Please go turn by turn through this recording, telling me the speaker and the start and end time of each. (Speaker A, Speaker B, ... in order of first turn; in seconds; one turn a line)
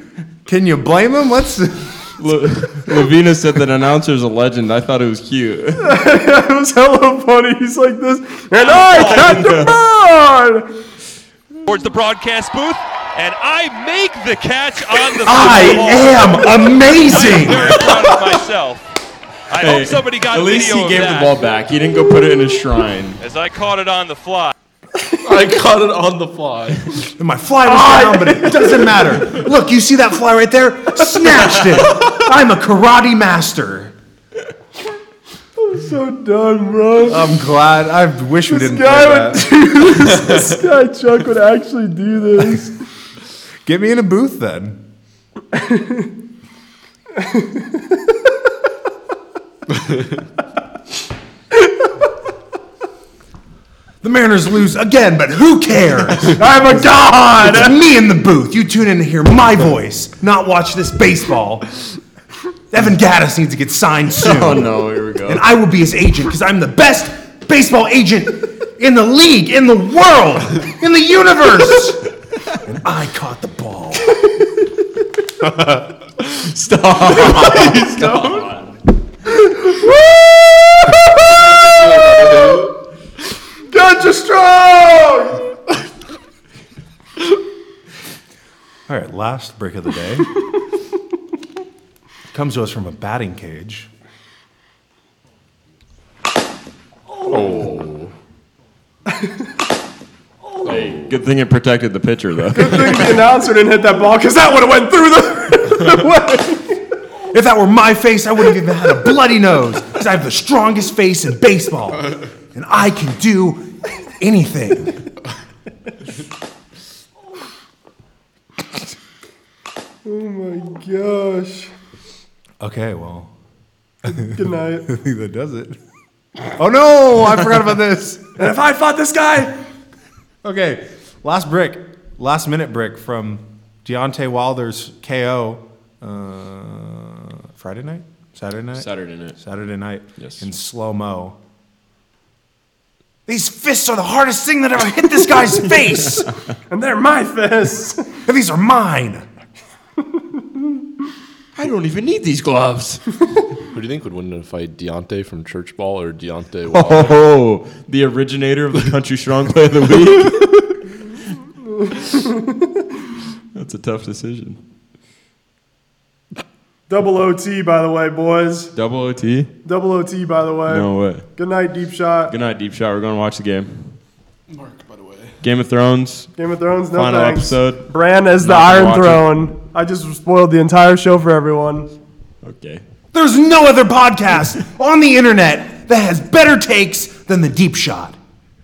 Speaker A: 0.5-1.9
Speaker B: 2.2-6.0
Speaker C: 5.8-10.7
Speaker D: 8.6-9.4
Speaker B: 9.0-9.7
Speaker D: 11.7-18.9
Speaker A: 15.2-17.9
Speaker D: 19.5-21.4
Speaker B: 19.6-23.2
Speaker D: 23.2-24.5
Speaker E: 25.2-26.9
Speaker A: 27.2-33.9
Speaker C: 27.6-29.4
Speaker C: 35.6-37.4
Speaker A: 37.1-39.6
Speaker C: 38.5-42.8
Speaker A: 43.6-44.8
Speaker C: 45.5-46.1
Speaker C: 47.2-47.8
Speaker A: 54.0-61.7
Speaker C: 56.4-57.8
Speaker A: 62.7-72.0
Speaker B: 64.1-65.4
Speaker A: 72.6-74.1
Speaker B: 76.3-78.8
Speaker C: 77.5-78.4
Speaker C: 82.2-82.6
Speaker C: 83.7-85.5
Speaker A: 88.9-90.3
Speaker A: 92.3-93.9
Speaker E: 97.2-98.1
Speaker E: 100.6-101.1
Speaker B: 100.6-103.2
Speaker C: 102.5-106.8
Speaker A: 107.3-115.0
Speaker C: 120.0-121.7
Speaker A: 122.6-123.3
Speaker C: 124.0-124.9
Speaker A: 124.9-125.8
Speaker A: 126.5-128.4
Speaker C: 128.4-129.5
Speaker A: 130.4-141.3
Speaker B: 138.7-139.4
Speaker A: 143.3-146.3
Speaker C: 146.7-148.1
Speaker A: 148.3-149.2
Speaker B: 151.5-153.0
Speaker E: 153.7-157.1
Speaker B: 156.7-160.6
Speaker C: 161.8-162.7
Speaker B: 163.5-164.6
Speaker C: 166.9-168.7
Speaker B: 168.7-169.5
Speaker C: 169.6-172.3
Speaker B: 170.7-171.3
Speaker B: 172.3-174.0
Speaker E: 174.5-175.4
Speaker B: 175.4-176.3
Speaker C: 176.4-181.9
Speaker B: 176.9-179.5
Speaker B: 182.4-182.8
Speaker A: 183.1-188.2